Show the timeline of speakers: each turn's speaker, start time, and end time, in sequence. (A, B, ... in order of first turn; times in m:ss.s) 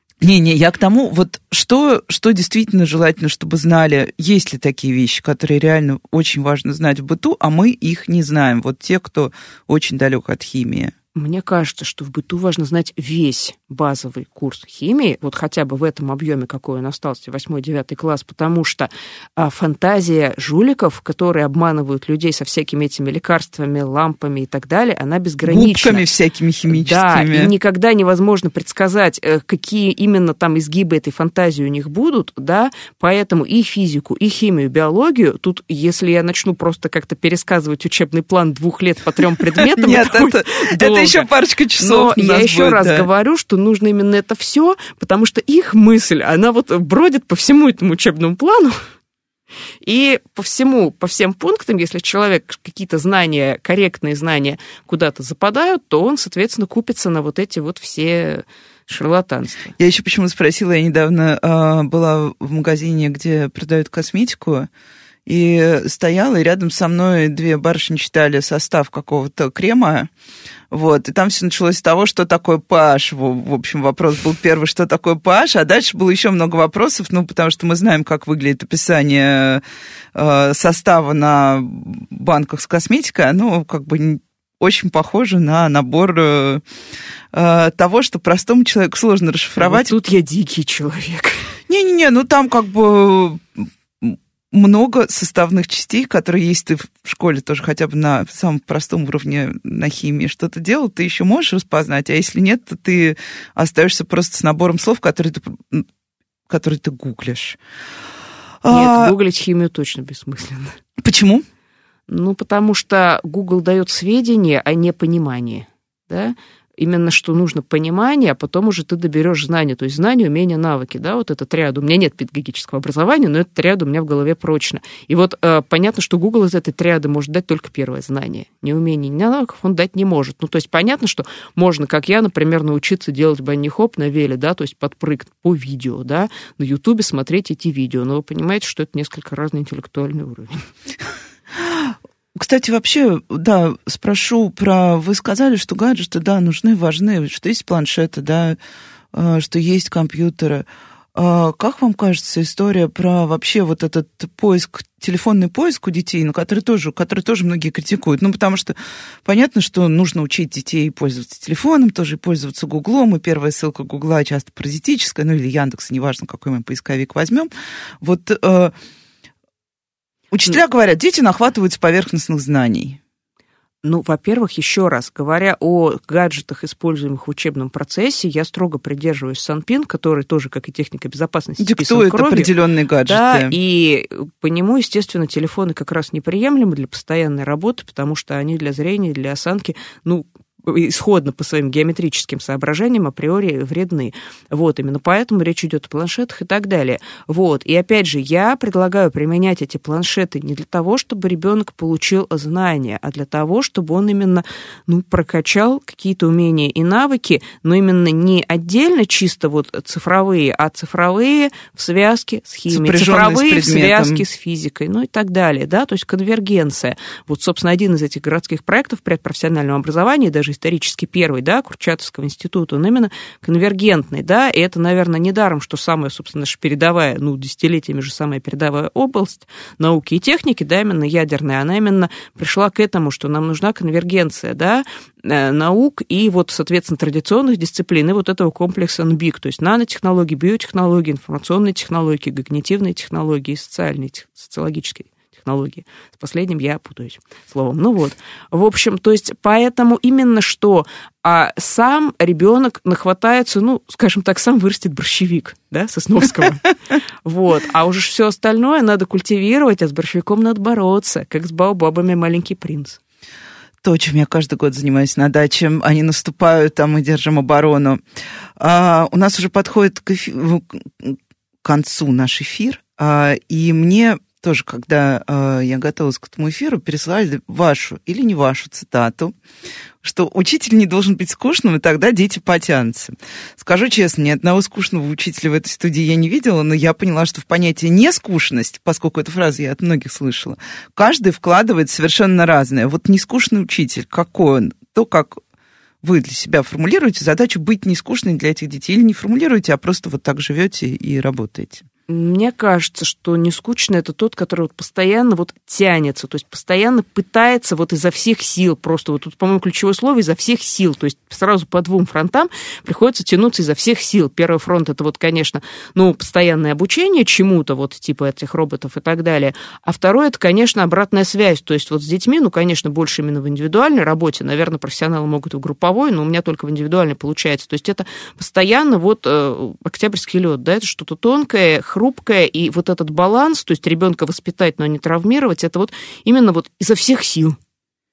0:00.2-0:10.9 A
0:11.2-0:26.1 B
0:25.4-0:27.5 A
0:26.7-0:41.3 B
0:39.5-0:43.1 A
0:41.8-0:48.8 B
0:49.8-0:59.7 B
0:59.8-1:04.7 A
1:05.3-1:10.1 A
1:10.7-1:19.6 A
1:20.2-1:26.6 A
1:27.3-1:30.0 A
1:29.6-1:31.5 B
1:31.7-1:45.9 A
1:46.5-1:47.6 A
1:48.6-1:49.1 A
1:48.7-1:50.8 B
1:51.0-1:51.4 A
1:52.1-2:20.7 B
2:21.6-2:28.6 A
2:29.1-2:47.5 A
2:48.0-2:48.7 A
2:50.3-2:53.0 A
2:53.8-3:02.5 B
3:01.6-3:03.6 A
3:03.1-4:16.7 B
3:32.7-3:34.2 A
4:17.2-4:23.0 B
4:23.8-4:28.0 A
4:28.6-4:39.4 A
4:40.0-4:55.4 A
4:56.0-5:01.9 A
5:02.1-5:37.6 B